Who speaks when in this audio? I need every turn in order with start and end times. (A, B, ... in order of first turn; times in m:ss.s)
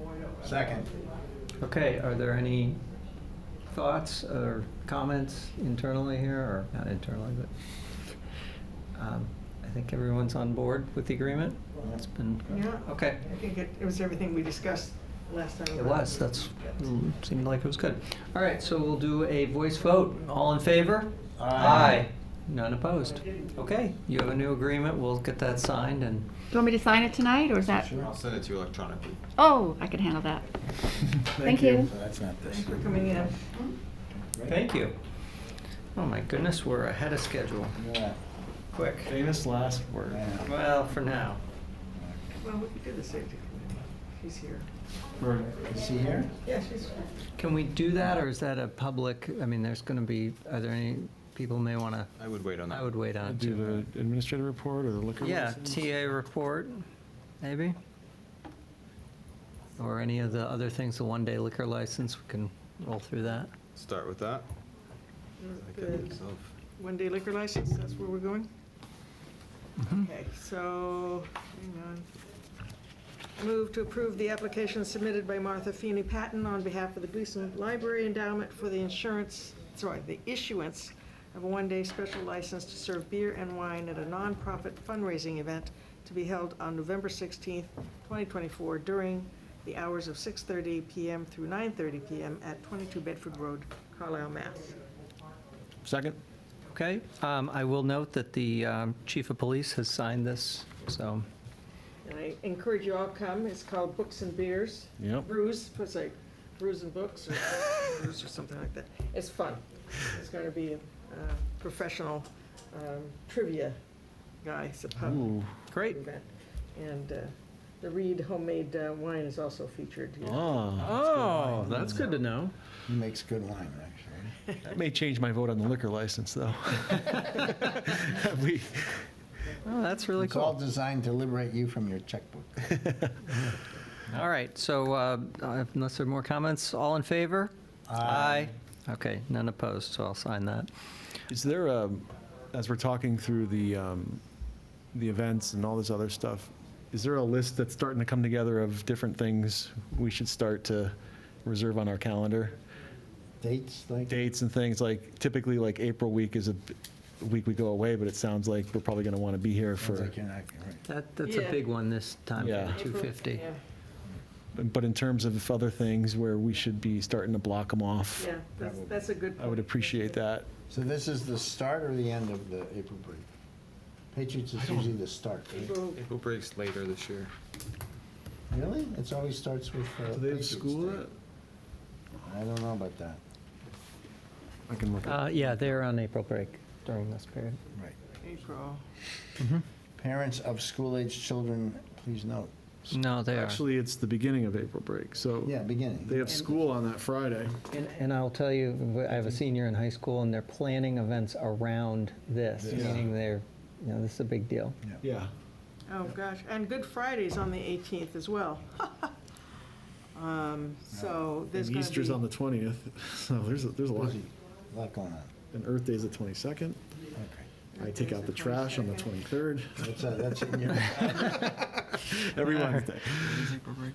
0:00.4-0:00.9 A
0:01.6-0:02.8 B
0:03.7-0:07.5 B
0:09.0-0:13.2 B
0:11.8-0:12.0 A
0:12.5-0:16.8 C
0:15.7-0:26.3 B
0:21.4-0:22.0 A
0:26.5-0:27.9 D
0:27.8-0:28.1 A
0:27.9-0:29.2 E
0:29.4-0:30.4 D
0:31.0-0:33.1 A
0:31.3-0:31.9 D
0:32.4-0:33.6 C
0:34.1-0:34.6 A
0:34.5-0:35.0 B
0:36.0-0:37.8 B
0:37.8-0:38.2 A
0:38.7-0:39.2 B
0:39.0-0:40.2 F
0:40.1-0:40.5 A
0:40.4-0:41.4 B
0:42.0-0:42.3 A
0:42.4-0:44.7 C
0:45.2-0:45.6 F
0:45.6-0:46.3 A
0:46.4-0:47.1 C
0:47.4-0:52.1 B
0:52.2-0:53.0 E
0:52.7-0:53.8 B
0:53.2-0:55.9 F
0:55.2-0:56.8 B
0:57.4-0:57.8 B
0:59.8-1:03.5 B
1:03.7-1:04.5 E
1:05.4-1:06.1 C
1:05.6-1:06.5 E
1:06.8-1:08.5 C
1:09.8-1:12.1 C
1:13.4-1:34.8 C
1:35.8-1:36.2 F
1:36.7-1:41.3 B
1:42.0-1:53.8 C
1:45.0-1:45.3 F
1:54.4-2:02.0 C
1:55.0-1:55.5 F
1:55.7-1:56.0 B
2:00.2-2:02.0 F
2:00.8-2:02.5 B
2:02.9-2:04.4 A
2:04.7-2:09.1 F
2:09.7-2:10.5 B
2:10.2-2:12.8 A
2:14.1-2:17.5 B
2:17.9-2:18.5 A
2:18.1-2:20.7 B
2:21.3-2:24.2 F
2:24.9-2:32.6 F
2:33.4-2:34.2 A
2:34.1-2:40.1 F
2:39.8-2:40.8 A
2:40.9-2:43.4 B
2:41.2-2:41.6 C
2:42.4-2:42.8 F
2:42.7-2:43.6 C
2:44.6-2:48.3 F
2:48.2-2:50.2 C
2:48.6-2:49.0 A
2:49.4-2:50.5 F
2:50.7-2:53.3 A
2:54.1-2:55.8 A
2:55.5-2:56.0 C
2:56.0-2:57.3 E
2:58.5-3:01.0 A
3:00.1-3:01.1 F
3:02.2-3:03.2 A
3:04.7-3:05.8 F
3:05.0-3:07.6 B
3:08.2-3:08.8 C
3:10.0-3:13.0 A
3:12.9-3:13.6 B
3:13.3-3:17.6 F
3:15.4-3:16.3 A
3:17.7-3:24.8 B
3:22.6-3:23.1 A
3:22.7-3:23.0 F
3:25.0-3:25.3 F
3:25.9-3:29.2 C
3:30.2-3:32.2 C
3:30.9-3:31.2 A
3:31.5-3:34.2 F
3:34.0-3:35.3 A
3:35.5-3:36.8 F
3:37.2-3:37.5 A
3:37.7-3:39.1 C
3:37.8-3:39.9 F
3:39.8-3:41.5 A
3:40.8-3:43.6 F